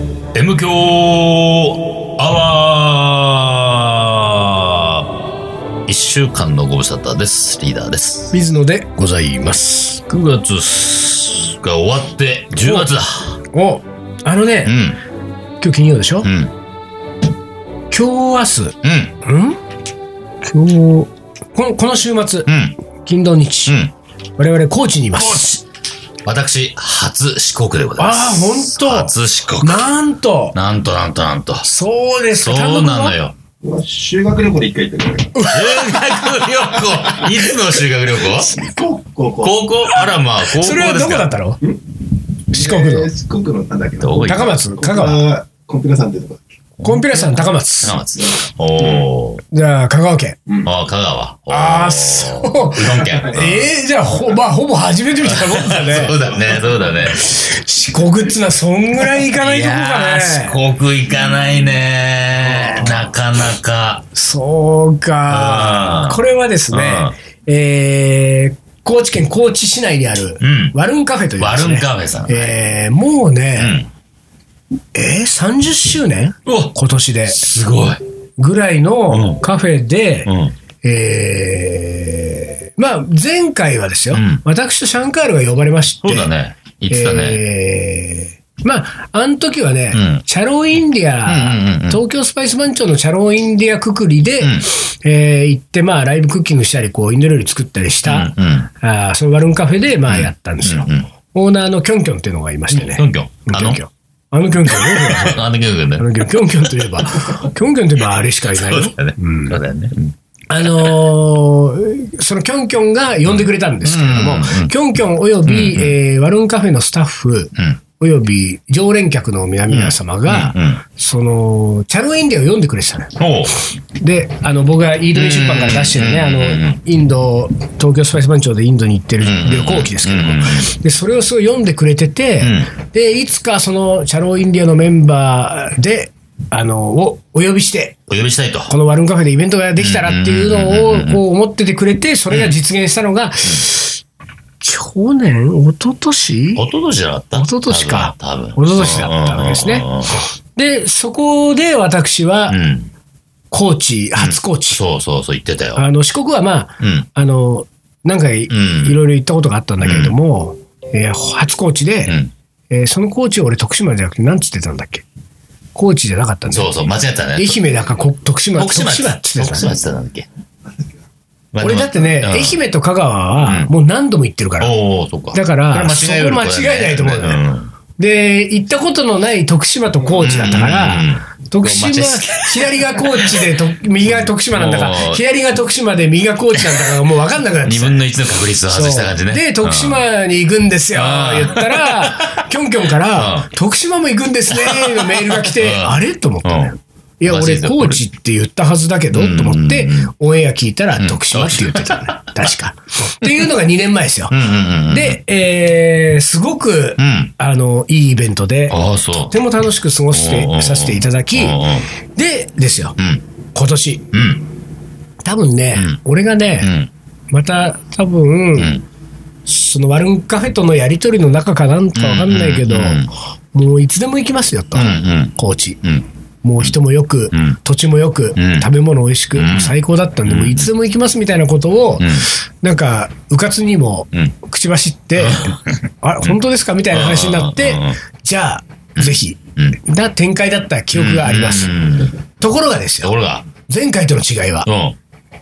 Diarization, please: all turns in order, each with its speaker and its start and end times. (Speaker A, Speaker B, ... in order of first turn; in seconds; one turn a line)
Speaker A: 0.3-5.1
Speaker A: 5.9-8.3
Speaker B: 8.3-10.0
Speaker A: 10.1-13.4
Speaker B: 12.6-12.9
Speaker B: 13.5-14.8
Speaker A: 14.6-15.0
Speaker B: 15.6-16.3
Speaker A: 16.2-16.5
Speaker B: 17.9-19.6
Speaker A: 18.8-19.1
Speaker B: 20.4-22.5
Speaker A: 22.5-22.8
Speaker B: 23.0-23.8
Speaker A: 23.7-23.9
Speaker B: 24.4-25.6
Speaker A: 25.1-25.6
Speaker A: 26.2-29.9
Speaker B: 28.0-30.6
Speaker A: 30.5-31.6
Speaker B: 31.6-33.1
Speaker A: 32.4-33.4
Speaker C: 33.6-35.4
Speaker B: 35.3-37.2
Speaker A: 35.5-38.6
Speaker B: 38.4-38.7
Speaker C: 38.4-39.6
Speaker A: 39.4-41.3
Speaker B: 40.5-41.6
Speaker B: 42.5-43.1
Speaker C: 42.5-46.4
Speaker A: 44.0-44.6
Speaker B: 44.2-45.2
Speaker A: 46.8-47.3
Speaker B: 46.8-48.0
Speaker A: 47.8-49.4
Speaker C: 48.2-49.1
Speaker B: 49.5-50.4
Speaker A: 50.6-53.7
Speaker B: 51.5-56.2
Speaker A: 55.2-57.2
Speaker B: 57.1-60.6
Speaker A: 59.2-64.1
Speaker B: 62.4-63.0
Speaker B: 64.1-73.8
Speaker A: 65.3-67.1
Speaker A: 70.4-70.8
Speaker A: 71.4-72.6
Speaker A: 73.6-73.9
Speaker B: 75.0-77.4
Speaker A: 76.5-76.8
Speaker A: 77.3-78.0
Speaker B: 78.4-86.3
Speaker A: 79.1-79.4
Speaker A: 80.3-80.5
Speaker A: 84.1-84.4
Speaker A: 86.0-87.4
Speaker B: 86.9-105.4
Speaker A: 89.9-90.2
Speaker A: 91.2-92.0
Speaker A: 94.4-94.7
Speaker A: 98.0-98.7
Speaker A: 100.1-101.1
Speaker A: 102.7-103.8
Speaker A: 104.7-106.1
Speaker B: 106.0-109.6
Speaker A: 108.5-111.0
Speaker B: 110.5-123.2
Speaker A: 113.3-114.7
Speaker A: 115.5-115.9
Speaker A: 119.7-120.8
Speaker A: 123.2-123.6
Speaker B: 124.0-138.0
Speaker A: 125.1-126.8
Speaker A: 129.2-130.7
Speaker A: 132.4-132.7
Speaker A: 138.1-138.7
Speaker B: 138.7-144.0
Speaker A: 139.8-141.2
Speaker A: 142.3-142.6
Speaker B: 144.6-146.7
Speaker A: 146.6-150.1
Speaker B: 147.3-152.6
Speaker A: 152.5-152.9
Speaker B: 153.5-154.8
Speaker A: 154.2-155.8
Speaker B: 155.8-162.2
Speaker A: 156.8-157.1
Speaker A: 158.5-159.0
Speaker A: 159.8-160.2
Speaker B: 162.7-165.1
Speaker B: 165.8-166.8
Speaker A: 166.5-167.6
Speaker B: 167.3-169.8
Speaker A: 168.6-170.3
Speaker A: 171.5-172.6
Speaker B: 171.6-174.7
Speaker A: 173.4-173.7
Speaker A: 174.6-177.7
Speaker B: 175.3-177.4
Speaker B: 178.0-188.0
Speaker A: 180.2-183.6
Speaker A: 184.2-185.2
Speaker A: 187.7-190.0
Speaker B: 188.7-211.7
Speaker A: 190.9-192.4
Speaker A: 193.2-193.5
Speaker A: 194.5-196.7
Speaker A: 197.2-198.0
Speaker A: 199.1-200.1
Speaker A: 201.0-202.3
Speaker A: 204.3-205.2
Speaker A: 207.0-207.3
Speaker A: 208.7-209.3
Speaker A: 210.1-211.9
Speaker B: 212.2-213.0
Speaker A: 213.0-213.2
Speaker B: 213.5-214.2
Speaker A: 214.1-214.4
Speaker B: 215.2-216.7
Speaker A: 215.7-216.0
Speaker A: 216.6-216.9
Speaker B: 217.3-218.8
Speaker A: 218.6-218.8
Speaker B: 219.5-225.8
Speaker A: 221.9-223.1
Speaker A: 224.8-226.1
Speaker B: 226.4-241.8
Speaker A: 227.3-227.6
Speaker A: 228.4-228.7
Speaker A: 229.3-229.8
Speaker A: 230.2-230.7
Speaker A: 232.0-232.3
Speaker A: 235.2-235.8
Speaker A: 236.9-238.0
Speaker A: 239.0-239.8
Speaker A: 240.9-242.1
Speaker B: 242.4-243.1
Speaker A: 243.0-243.5
Speaker B: 243.7-244.7
Speaker A: 244.7-245.0